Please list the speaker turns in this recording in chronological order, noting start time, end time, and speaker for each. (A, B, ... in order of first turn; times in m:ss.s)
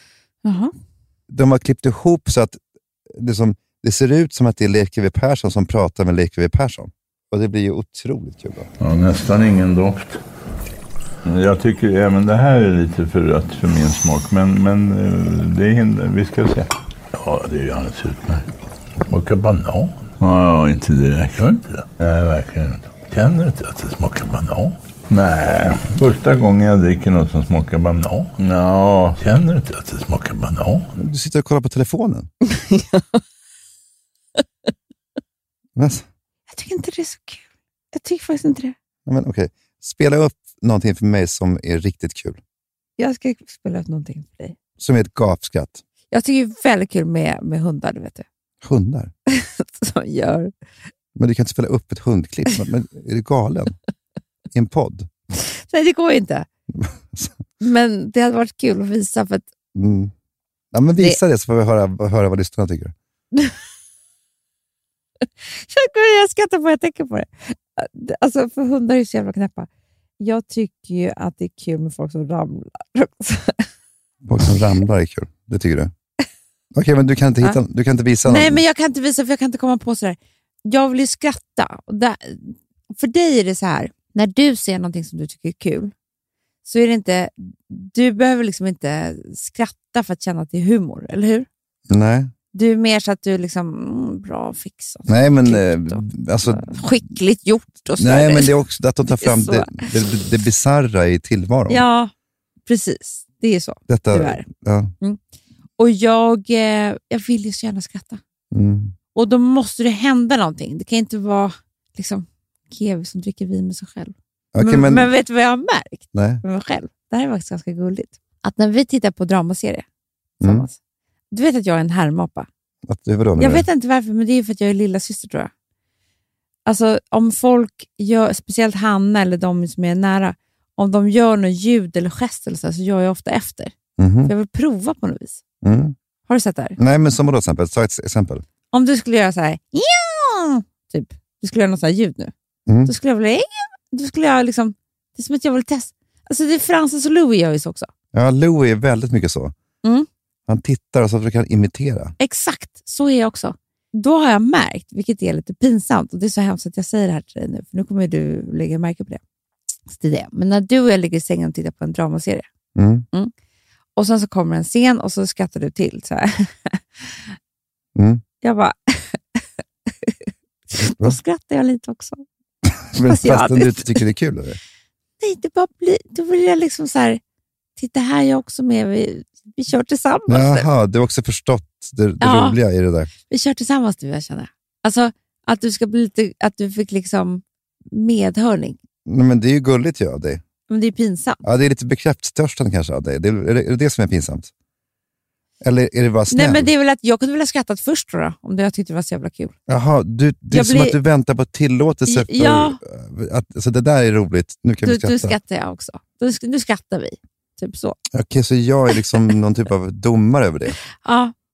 0:00.4-0:00.7 A
0:01.3-0:02.6 B
0:03.1-0:08.7 B
0:08.8-0:10.2 C
0:11.2-0:18.5 C
0:19.1-0:30.9 C
0:31.0-0:32.3 B
0:32.7-0:33.0 A
0:35.8-0:36.1 B
0:36.5-0:38.8 A
0:39.1-0:42.4 B
0:43.0-0:44.6 A
0:44.8-0:45.8 B
0:46.1-0:48.3 A
0:48.6-0:49.1 B
0:49.3-0:50.5 A
0:51.2-0:53.8 B
0:54.5-0:55.1 B
0:55.4-0:56.5 A
0:56.8-0:57.4 B
0:57.6-0:59.5 A
0:59.8-1:00.1 B
1:00.7-1:02.9 B
1:05.5-1:09.7 A
1:10.2-1:13.7 A
1:14.2-1:15.9 B
1:16.7-1:18.6 B
1:18.2-1:25.9 A
1:26.6-1:31.5 A
1:31.9-1:32.3 B
1:32.5-1:38.5 A
1:35.1-1:36.8 B
1:38.0-1:41.8 B
1:39.2-1:39.9 A
1:41.7-1:42.1 A
1:42.7-1:44.4 A
1:43.9-1:44.9 B
1:45.8-1:48.2 A
1:48.5-1:49.0 B
1:49.2-1:59.9 A
1:54.5-1:55.1 B
1:56.1-1:56.4 B
2:00.4-2:00.7 B
2:00.4-2:00.8 A
2:01.3-2:02.5 A
2:02.9-2:03.7 B
2:03.4-2:05.5 A
2:06.7-2:13.7 A
2:14.0-2:14.3 B
2:14.3-2:15.4 A
2:15.6-2:16.0 B
2:16.3-2:16.8 A
2:16.8-2:18.4 B
2:18.7-2:22.3 A
2:22.7-2:22.9 B
2:22.9-2:27.9 A
2:28.1-2:29.5 B
2:30.5-2:32.1 B
2:32.2-2:39.2 A
2:39.9-2:42.5 A
2:42.8-2:43.1 B
2:44.0-2:47.2 A
2:48.0-2:48.2 B
2:48.4-2:49.4 A
2:50.7-2:52.2 A
2:52.6-2:54.6 B
2:53.0-2:54.0 A
2:55.2-2:57.2 A
2:57.8-3:00.7 A
3:00.3-3:03.1 B
3:02.2-3:02.6 A
3:03.3-3:08.8 A
3:09.1-3:10.4 B
3:10.7-3:11.4 A
3:11.4-3:14.5 B
3:15.6-3:16.7 B
3:16.3-3:19.6 A
3:19.7-3:25.4 B
3:20.5-3:21.0 A
3:22.1-3:22.8 A
3:24.8-3:28.0 A
3:28.1-3:30.8 B
3:31.0-3:31.3 A